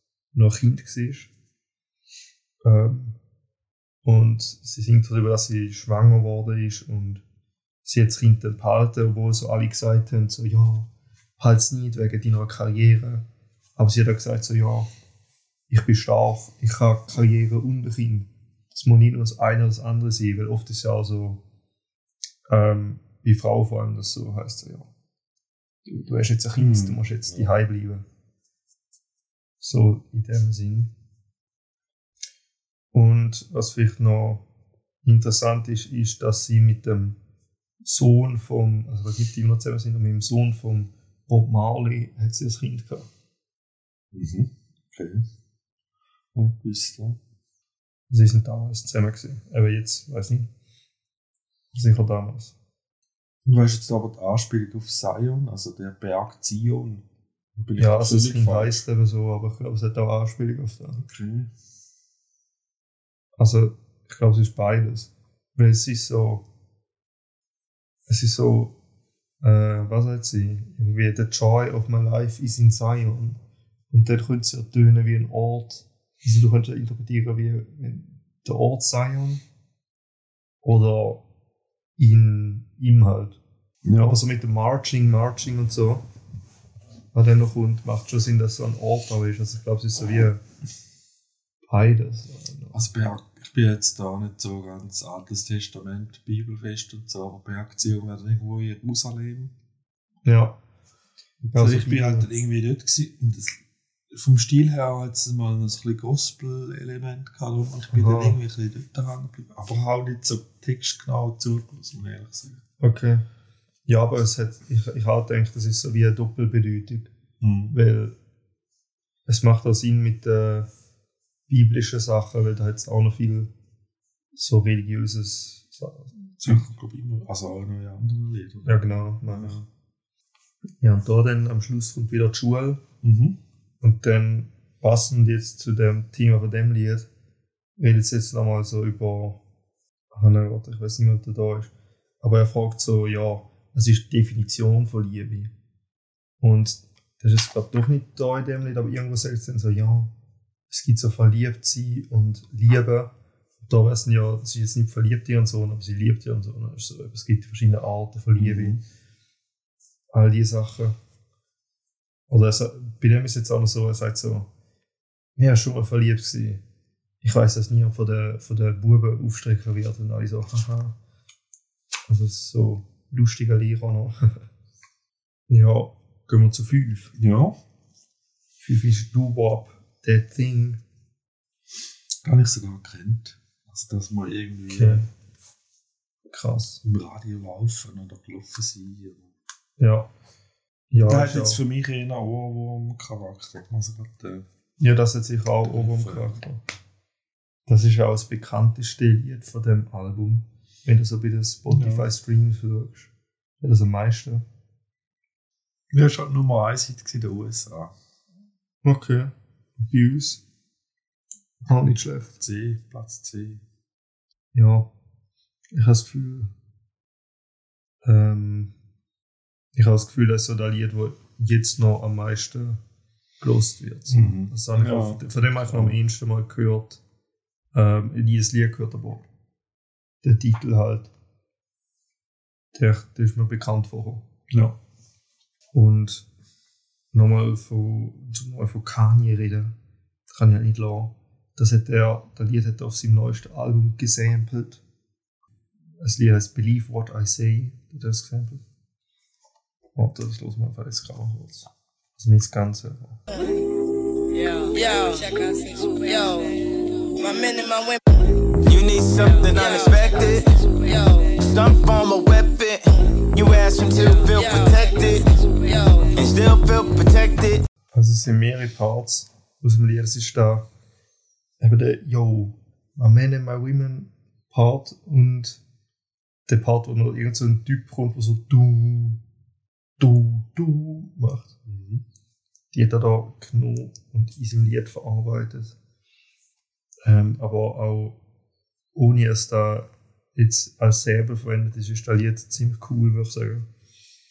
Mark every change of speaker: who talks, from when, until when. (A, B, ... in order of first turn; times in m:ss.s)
0:00.3-0:01.3 A
0:02.6-0:03.2 A
0:04.0-0:07.2 A
0:07.8-0:14.9 A
0:15.7-0:21.4 A
0:22.5-0:24.9 A
0:25.8-0:28.0 A
0:26.6-0:27.5 B
0:29.6-0:30.9 A
0:32.9-0:34.4 A
0:35.0-0:37.2 A
0:37.8-0:43.1 A
0:44.1-0:45.2 B
0:46.3-0:47.2 B
0:48.1-0:50.5 A
0:51.7-0:52.6 A
0:53.4-0:57.0 B
0:57.6-0:58.8 B
0:57.8-1:01.0 A
1:01.0-1:01.5 B
1:03.4-1:06.4 A
1:08.1-1:08.8 A
1:09.4-1:13.4 A
1:13.9-1:19.4 A
1:20.6-1:21.2 A
1:22.0-1:23.4 A
1:23.8-1:24.2 B
1:24.0-1:26.0 A
1:27.1-1:30.4 A
1:31.7-1:32.8 A
1:32.7-1:39.5 B
1:40.2-1:40.6 A
1:41.4-1:43.6 B
1:41.5-1:42.3 A
1:44.1-1:52.6 B
1:47.9-1:48.4 A
1:52.8-1:53.2 A
1:53.8-1:57.1 A
1:57.4-1:57.8 B
1:57.7-1:58.2 A
1:59.3-2:00.7 A
2:01.5-2:03.5 A
2:04.3-2:06.7 A
2:06.4-2:09.7 B
2:08.6-2:09.6 A
2:10.8-2:12.8 A
2:13.0-2:13.4 B
2:13.8-2:17.1 A
2:17.8-2:19.4 A
2:20.1-2:25.5 A
2:26.4-2:30.1 A
2:30.7-2:38.8 A
2:38.4-2:38.8 B
2:40.1-2:41.0 A
2:42.3-2:44.5 A
2:45.4-2:46.6 A
2:47.2-2:51.0 A
2:52.1-2:54.4 A
2:55.5-2:57.1 A
2:57.1-2:57.6 B
2:58.6-3:00.8 A
3:02.2-3:05.0 B
3:04.7-3:05.0 A
3:06.3-3:06.8 A
3:06.8-3:09.3 B
3:09.8-3:10.1 A
3:10.9-3:11.6 A
3:11.0-3:14.4 B
3:14.8-3:16.6 A
3:15.6-3:16.4 B
3:17.7-3:24.4 A
3:21.7-3:22.1 B
3:25.9-3:27.9 B
3:28.8-3:30.4 A
3:31.6-3:32.4 A
3:32.4-3:33.6 B
3:34.5-3:34.9 A
3:35.7-3:36.5 A
3:38.0-3:38.7 A
3:39.7-3:42.8 A
3:43.4-3:47.0 A
3:44.1-3:46.0 B
3:47.7-3:49.2 A
3:50.2-3:51.1 A
3:52.7-3:54.2 A
3:54.5-3:54.8 B
3:55.7-3:56.3 A
3:57.1-3:59.7 A
4:00.3-4:04.8 A
4:06.0-4:08.6 A
4:10.0-4:13.2 A
4:14.3-4:18.2 C
4:18.6-4:20.4 D
4:19.1-4:21.4 C
4:21.4-4:25.2 D
4:24.0-4:26.2 C
4:26.2-4:27.6 D
4:27.9-4:30.6 A
4:31.6-4:35.6 A
4:36.5-4:39.2 A
4:40.0-4:41.5 A
4:41.6-4:42.0 B
4:42.7-4:45.8 A
4:47.0-4:48.2 A
4:48.9-4:53.7 A